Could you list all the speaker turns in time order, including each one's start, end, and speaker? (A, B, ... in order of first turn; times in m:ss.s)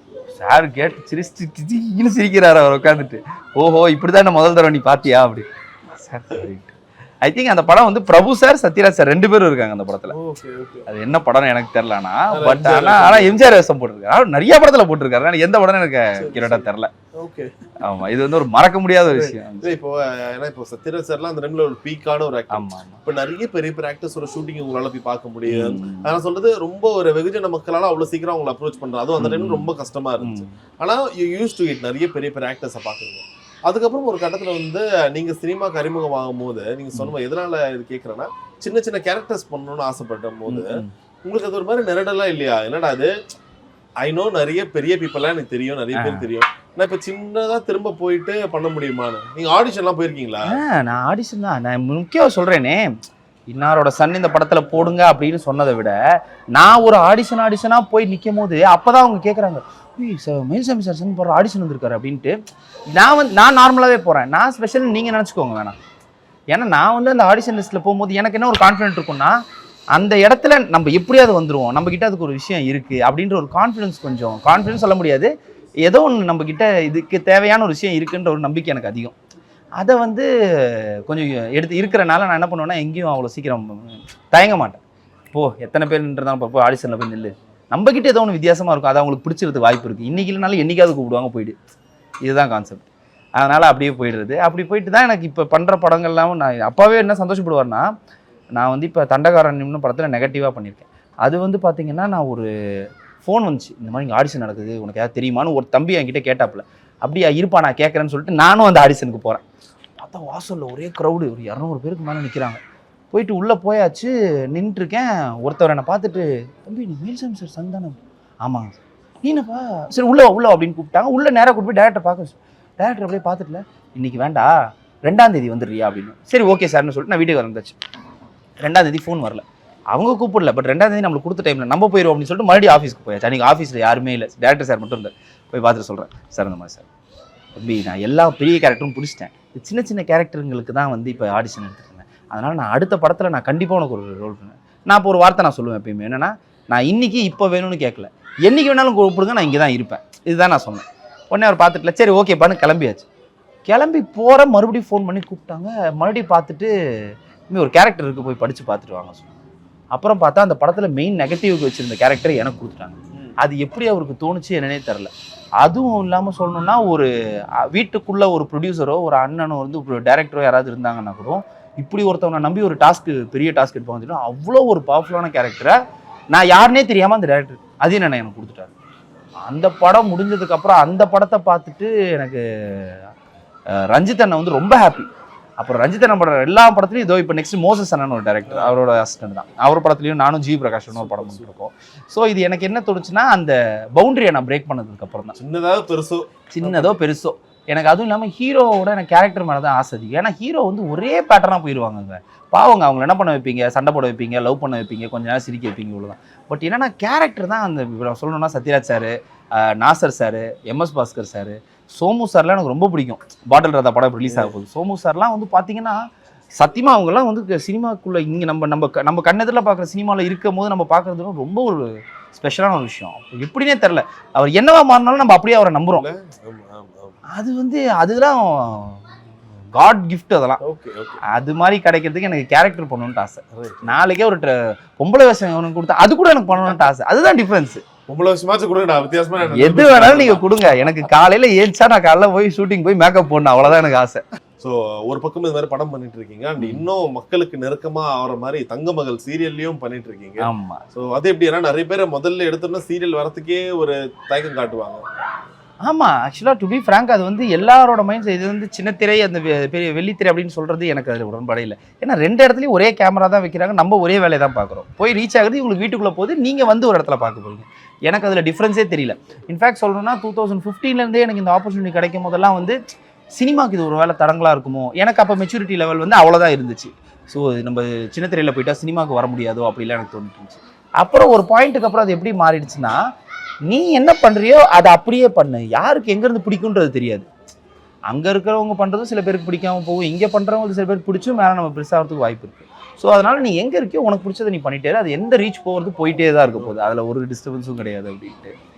0:00.3-0:10.2 A
0:10.1-0:10.9 B
0:10.9-0:16.9 A
0:12.3-0:13.4 B
0:16.2-0:17.5 B
0:17.8-0:19.8 A
0:19.1-0:43.1 B
0:22.5-0:23.0 A
0:25.5-0:26.2 A
0:29.2-0:29.7 A
0:30.2-0:30.5 A
0:40.5-0:40.9 A
0:44.0-0:50.6 B
0:46.0-0:46.3 A
0:50.5-0:53.0 A
0:53.5-0:56.0 A
0:56.5-1:02.4 A
1:02.9-1:05.8 A
1:06.5-1:09.4 A
1:09.9-1:15.3 A
1:15.8-1:19.1 A
1:19.8-1:24.8 A
1:25.3-1:31.6 A
1:32.2-1:32.8 A
1:33.4-1:37.9 A
1:38.6-1:42.5 A
1:43.2-1:49.4 A
1:50.0-1:52.6 A
1:53.1-2:07.8 A
2:08.6-2:16.8 A
2:17.6-2:33.1 A
2:33.7-2:36.7 A
2:37.5-2:39.3 A
2:39.9-2:47.1 A
2:47.6-2:55.8 A
2:56.3-2:58.7 A
2:59.4-3:03.0 A
3:03.7-3:05.1 A
3:05.6-3:15.4 A
3:08.5-3:08.7 B
3:10.9-3:11.5 B
3:15.4-3:17.0 B
3:16.5-3:36.1 A
3:34.3-3:34.5 B
3:36.6-3:46.0 A
3:45.9-3:47.2 B
3:47.3-3:49.0 A
3:49.7-3:50.6 A
3:50.6-3:51.2 B
3:51.3-3:57.8 A
3:53.5-3:54.0 B
3:58.1-4:00.4 B
3:59.4-4:04.2 A
4:04.6-4:15.0 B
4:06.6-4:06.8 A
4:10.4-4:10.8 A
4:15.8-4:32.8 A
4:33.4-4:43.0 A
4:43.7-4:47.3 A
4:48.1-4:58.6 A